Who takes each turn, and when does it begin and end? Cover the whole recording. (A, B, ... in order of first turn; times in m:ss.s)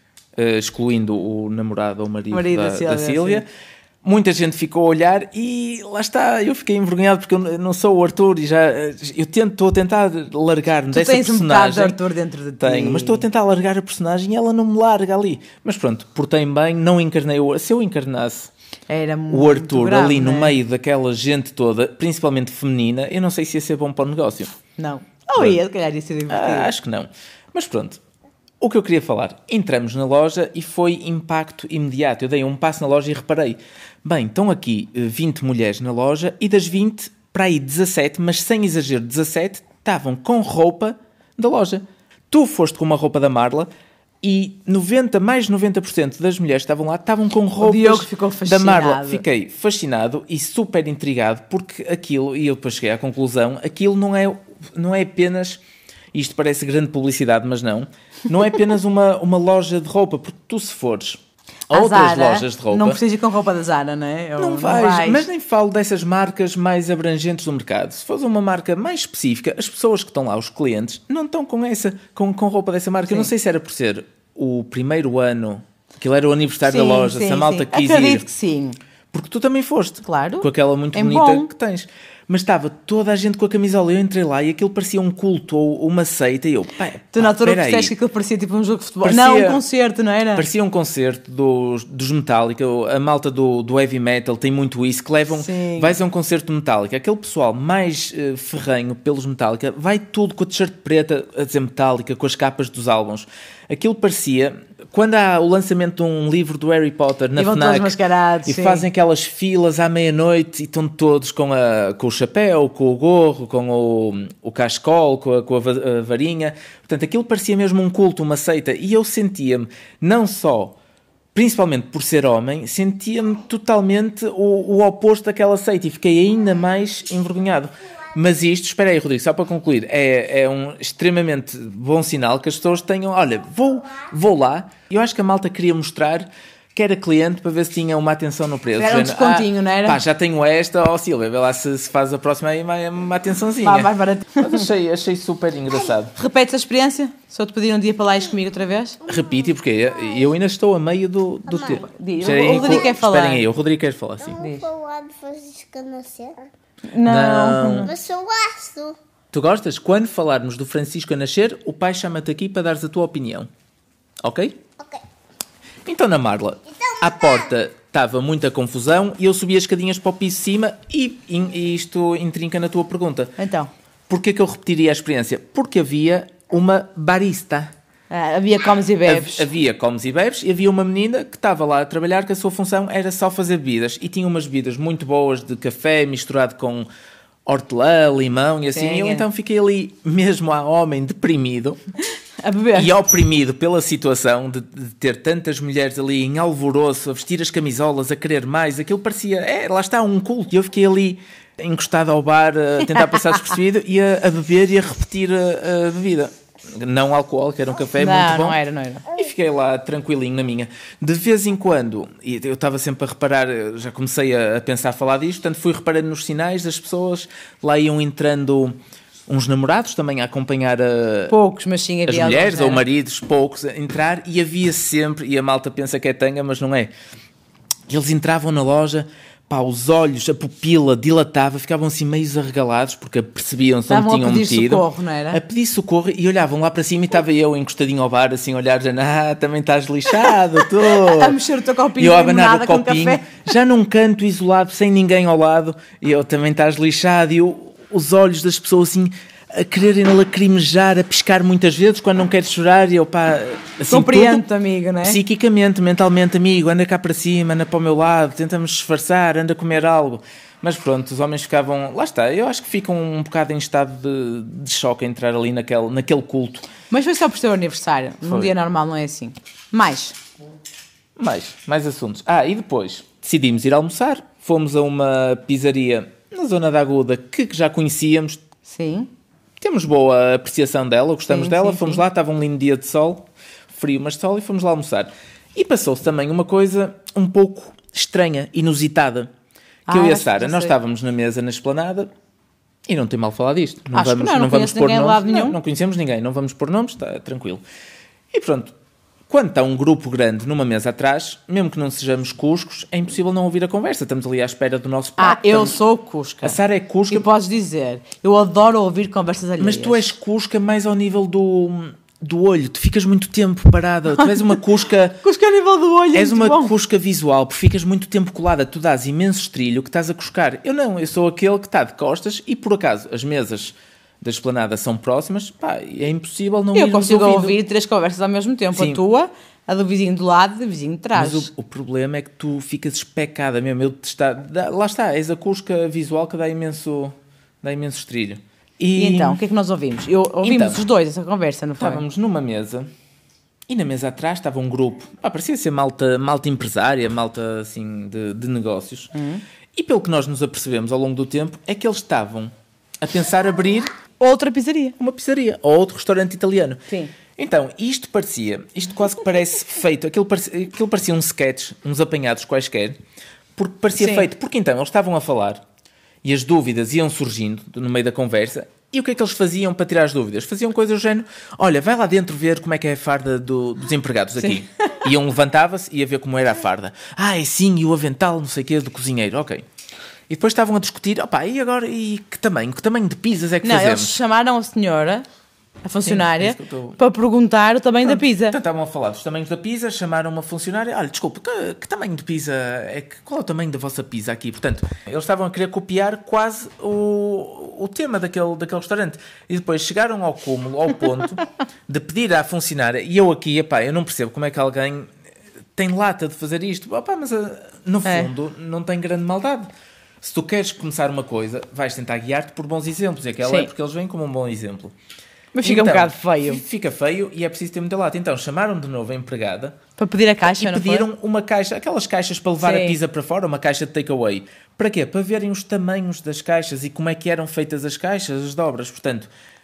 0:00.4-0:03.5 A
0:02.3-0:03.4 B
0:04.0-0:12.0 A
0:10.9-0:13.2 B
0:12.6-0:18.5 A
0:18.9-0:20.6 B
0:19.3-0:24.5 A
0:24.8-0:26.7 B
0:26.3-0:28.0 A
0:28.6-0:43.7 A
0:44.2-0:55.6 A
0:47.6-0:49.2 B
0:56.1-1:03.0 A
1:01.7-1:05.2 B
1:04.4-1:18.2 A
1:16.6-1:18.8 B
1:19.1-1:27.9 A
1:20.0-1:21.5 B
1:27.1-1:30.5 B
1:29.0-1:29.6 A
1:30.3-2:00.8 A
1:35.3-1:36.0 B
1:47.4-1:48.8 B
2:01.3-2:26.1 A
2:18.8-2:20.0 B
2:23.6-2:24.7 B
2:26.2-2:29.0 B
2:29.0-2:34.4 A
2:31.5-2:31.8 C
2:31.7-2:33.5 B
2:32.4-2:32.8 C
2:34.2-2:36.4 C
2:34.4-2:34.6 B
2:36.9-2:37.9 B
2:37.0-2:37.9 A
2:37.8-2:39.0 C
2:39.3-2:43.5 A
2:44.2-2:44.6 A
2:45.8-2:53.4 A
2:46.9-2:47.3 C
2:53.4-2:53.7 B
2:54.1-2:57.7 A
2:58.1-2:59.4 B
2:59.0-3:06.9 A
3:07.4-3:11.8 A
3:08.7-3:09.2 B
3:12.4-3:13.0 B
3:12.7-3:38.8 A
3:28.0-3:29.0 B
3:39.3-3:41.3 A
3:41.3-3:42.8 B
3:42.0-3:46.9 A
3:47.9-4:01.4 A
3:53.9-3:55.4 B
4:00.8-4:03.3 B
4:02.0-4:14.4 A
4:13.9-4:15.2 B
4:15.0-4:26.7 A
4:26.9-4:30.2 B
4:28.2-4:28.5 A
4:31.2-4:38.4 A
4:38.6-4:39.1 B
4:39.6-4:49.3 A
4:41.3-4:42.0 B
4:49.9-4:50.7 B
4:49.9-4:52.1 A
4:52.8-4:57.6 A
4:53.9-4:55.6 B
4:58.3-4:58.7 A
4:59.3-5:05.8 A
5:05.2-5:06.6 B
5:06.4-5:07.3 A
5:07.1-5:10.1 B
5:09.6-5:15.2 A
5:14.2-5:14.6 B
5:15.2-5:16.7 B
5:16.1-5:27.6 A
5:26.7-5:31.5 B
5:28.7-5:29.0 A
5:31.1-5:39.4 A
5:39.0-5:42.0 B
5:40.4-5:40.8 A
5:41.8-5:42.9 A
5:43.7-5:49.1 A
5:49.1-5:49.4 B
5:49.7-5:53.9 A
5:54.2-5:55.0 B
5:55.0-5:56.8 A
5:56.9-5:57.1 B
5:57.4-6:03.0 A
6:03.6-6:05.6 A
6:04.0-6:04.3 B
6:06.2-6:19.6 A
6:20.3-6:24.2 A
6:23.6-6:25.2 B
6:25.8-6:28.6 B
6:26.0-6:27.0 A
6:28.0-6:45.1 A
6:45.8-6:49.7 A
6:48.0-6:48.3 B
6:50.2-6:54.9 A
6:53.4-6:53.7 B
6:55.5-6:56.6 B
6:55.6-6:59.8 A
7:00.0-7:01.1 B
7:00.4-7:09.3 A
7:02.6-7:03.0 B